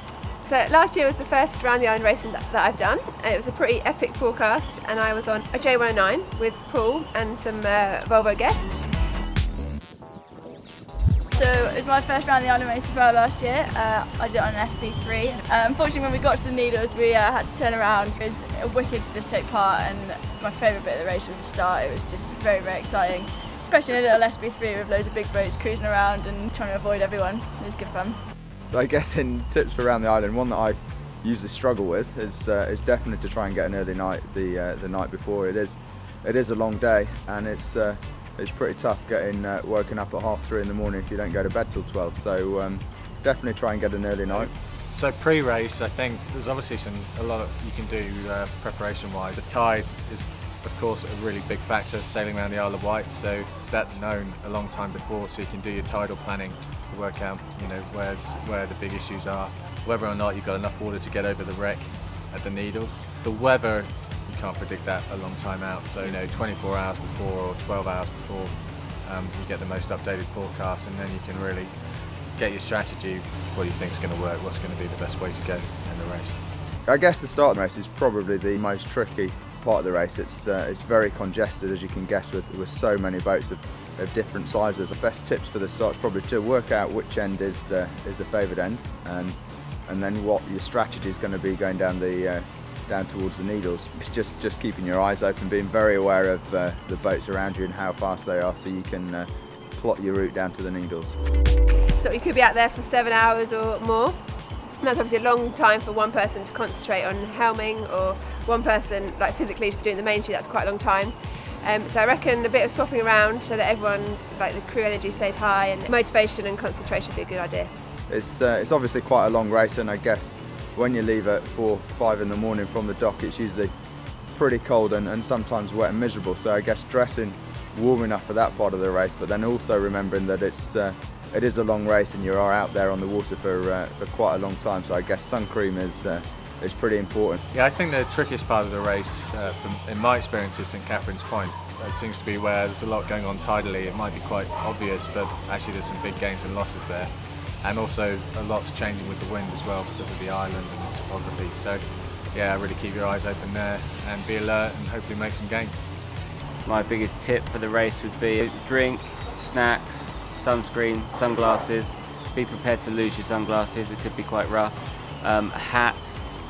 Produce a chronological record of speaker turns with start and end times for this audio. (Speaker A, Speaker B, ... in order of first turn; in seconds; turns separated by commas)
Speaker A: 0.4-8.8, Speaker B: 11.3-28.2, Speaker C: 28.7-44.5, Speaker D: 44.3-76.4, Speaker C: 76.9-101.2, Speaker A: 102.0-104.2, Speaker A: 104.8-117.7, Speaker C: 118.1-123.7, Speaker C: 124.3-137.4, Speaker D: 137.5-155.9, Speaker E: 156.6-166.2